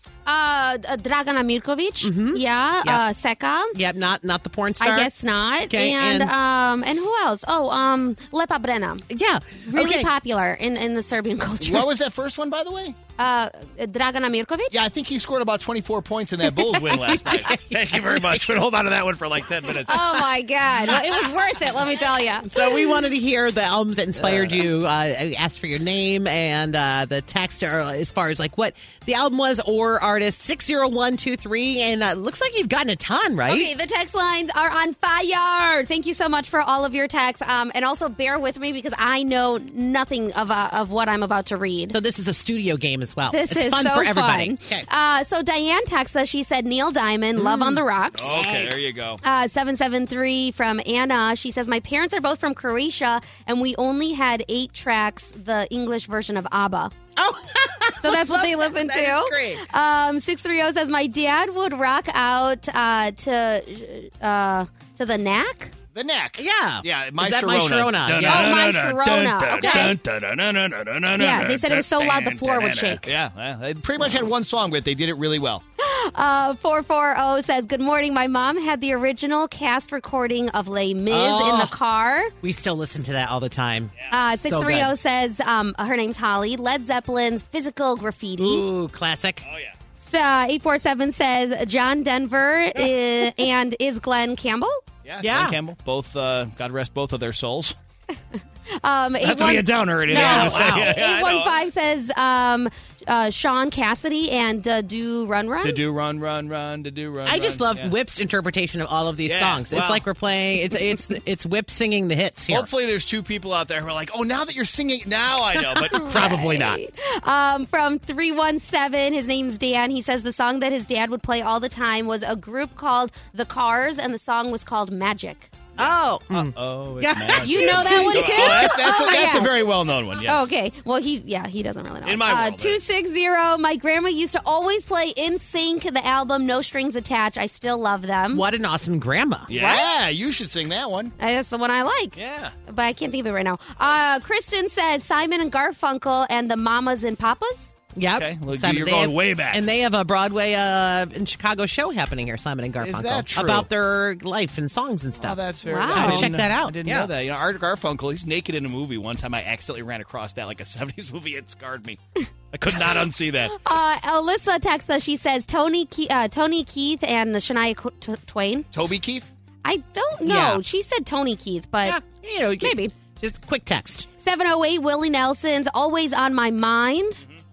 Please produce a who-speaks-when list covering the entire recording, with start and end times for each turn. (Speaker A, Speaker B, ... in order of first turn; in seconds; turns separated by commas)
Speaker A: 0.3-3.8, Speaker B: 2.0-3.0, Speaker B: 3.7-5.1, Speaker A: 4.8-9.1, Speaker B: 5.7-6.3, Speaker B: 9.1-10.1, Speaker A: 9.7-11.9, Speaker C: 11.6-13.0, Speaker A: 13.2-14.8, Speaker C: 14.7-20.3, Speaker B: 16.7-18.4, Speaker A: 19.9-22.9, Speaker B: 22.5-33.7, Speaker C: 24.2-24.6, Speaker A: 33.5-42.0, Speaker B: 41.9-44.9, Speaker A: 43.3-48.4, Speaker B: 47.4-48.8, Speaker C: 48.2-49.2, Speaker A: 49.2-56.9, Speaker B: 57.2-59.6, Speaker A: 58.0-65.7, Speaker C: 66.0-75.6, Speaker B: 66.4-68.6, Speaker A: 68.2-70.0, Speaker B: 69.6-70.0, Speaker A: 71.2-73.1, Speaker A: 75.8-82.3, Speaker B: 81.1-81.7, Speaker B: 82.4-83.9, Speaker A: 84.1-88.7, Speaker B: 84.5-84.9, Speaker B: 88.4-89.5, Speaker C: 89.5-89.8, Speaker A: 90.0-94.8, Speaker C: 95.0-97.8, Speaker B: 95.2-95.6, Speaker A: 98.8-105.8, Speaker C: 99.2-101.6, Speaker B: 100.1-101.0, Speaker C: 105.6-107.9, Speaker B: 107.3-112.7, Speaker C: 109.3-110.1, Speaker C: 112.5-116.7, Speaker A: 115.9-125.5, Speaker B: 115.9-116.8, Speaker C: 125.8-130.5, Speaker B: 125.8-128.9, Speaker A: 127.3-129.7, Speaker A: 130.2-138.4, Speaker C: 132.0-132.8, Speaker B: 138.3-139.5, Speaker A: 139.5-140.0, Speaker C: 139.5-141.1, Speaker A: 141.2-147.7, Speaker C: 142.2-142.5, Speaker B: 147.9-157.1, Speaker C: 148.1-149.7, Speaker C: 152.8-153.7, Speaker C: 155.2-162.0, Speaker A: 155.7-156.4, Speaker C: 162.5-163.6, Speaker A: 163.5-168.8, Speaker C: 168.7-169.3, Speaker A: 169.6-172.0, Speaker B: 170.2-170.6, Speaker B: 171.8-174.1, Speaker A: 172.6-172.9, Speaker A: 174.2-177.2